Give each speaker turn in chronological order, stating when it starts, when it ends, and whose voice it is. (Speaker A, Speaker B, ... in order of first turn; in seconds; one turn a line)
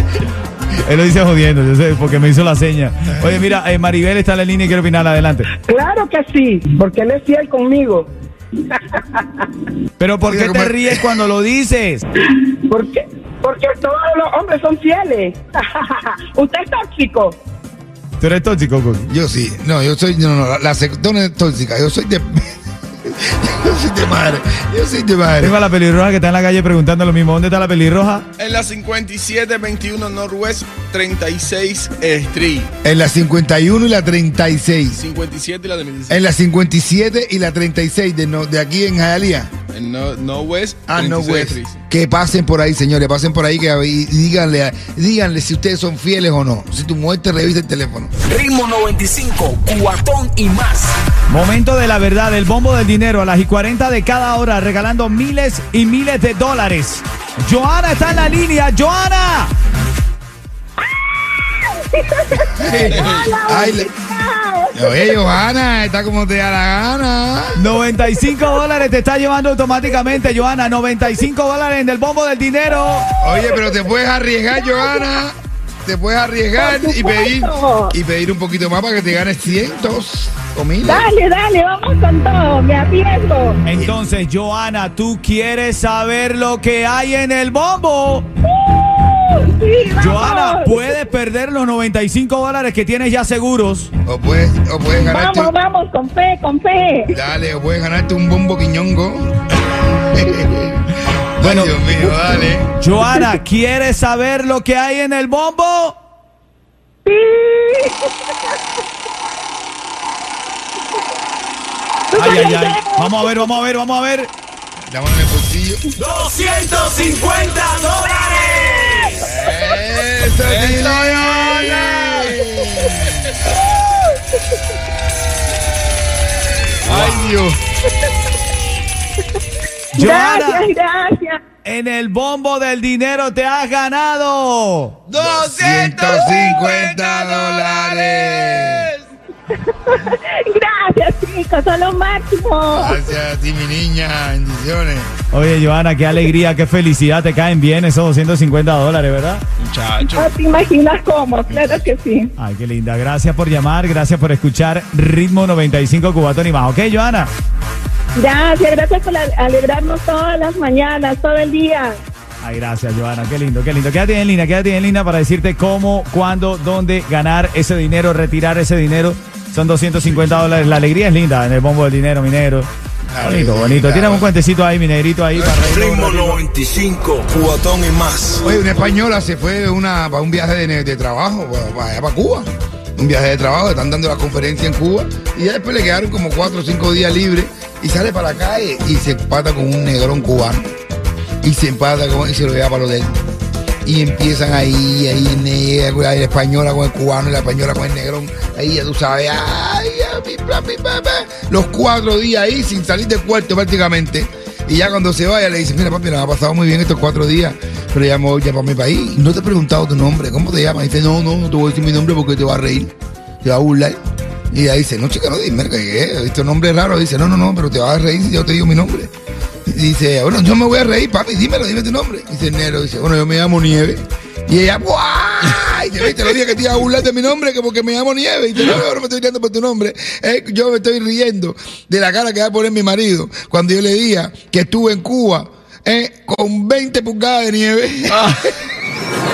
Speaker A: 0.8-5.5
Speaker B: 5.7-8.1
Speaker B: 8.7-9.2
Speaker A: 10.0-12.1
Speaker C: 10.3-11.2
Speaker B: 12.7-17.4
Speaker A: 18.2-19.1
Speaker C: 19.1-25.6
Speaker A: 25.4-28.3
Speaker D: 28.4-32.7
Speaker C: 32.8-35.0
Speaker D: 35.0-36.2
Speaker C: 36.1-39.5
Speaker D: 39.7-41.8
Speaker C: 40.9-48.1
Speaker E: 48.2-51.0
Speaker A: 51.3-59.5
Speaker F: 60.8-65.3
Speaker C: 62.6-63.9
Speaker D: 62.9-63.3
Speaker C: 64.7-67.7
Speaker A: 67.6-73.1
Speaker C: 73.2-75.3
Speaker F: 73.2-73.6
Speaker F: 74.8-75.2
Speaker C: 75.8-81.1
Speaker F: 76.6-78.0
Speaker F: 80.8-83.6
Speaker A: 83.7-88.3
Speaker F: 88.4-90.9
Speaker A: 90.0-93.9
Speaker C: 94.1-95.5
Speaker F: 95.1-97.2
Speaker C: 97.1-99.3
Speaker C: 100.0-100.8
Speaker C: 101.4-102.7
Speaker A: 101.4-101.8
Speaker A: 102.8-106.0
Speaker F: 107.0-108.5
Speaker F: 112.1-113.3
Speaker A: 112.2-114.3
Speaker C: 114.9-115.8
Speaker A: 116.0-119.3
Speaker F: 118.2-119.2
Speaker C: 119.2-123.4
Speaker D: 120.3-122.0
Speaker F: 123.5-124.4
Speaker C: 126.8-127.5
Speaker D: 126.8-127.5
Speaker F: 129.9-131.4
Speaker A: 130.0-130.7
Speaker A: 131.6-135.0
Speaker D: 135.1-139.0
Speaker C: 135.1-138.9
Speaker F: 139.5-143.0
Speaker C: 142.7-145.1
Speaker A: 145.3-149.4
Speaker D: 149.6-150.3
Speaker F: 150.0-152.3
Speaker C: 151.5-151.8
Speaker A: 152.4-157.3
Speaker F: 158.2-162.0
Speaker A: 162.4-172.7
Speaker C: 173.1-174.3
Speaker A: 173.2-176.4
Speaker G: 175.9-178.4
Speaker C: 178.4-190.7
Speaker C: 191.4-193.1
Speaker C: 193.8-214.0
Speaker C: 214.5-219.1
Speaker C: 219.7-238.5
Speaker D: 238.1-238.4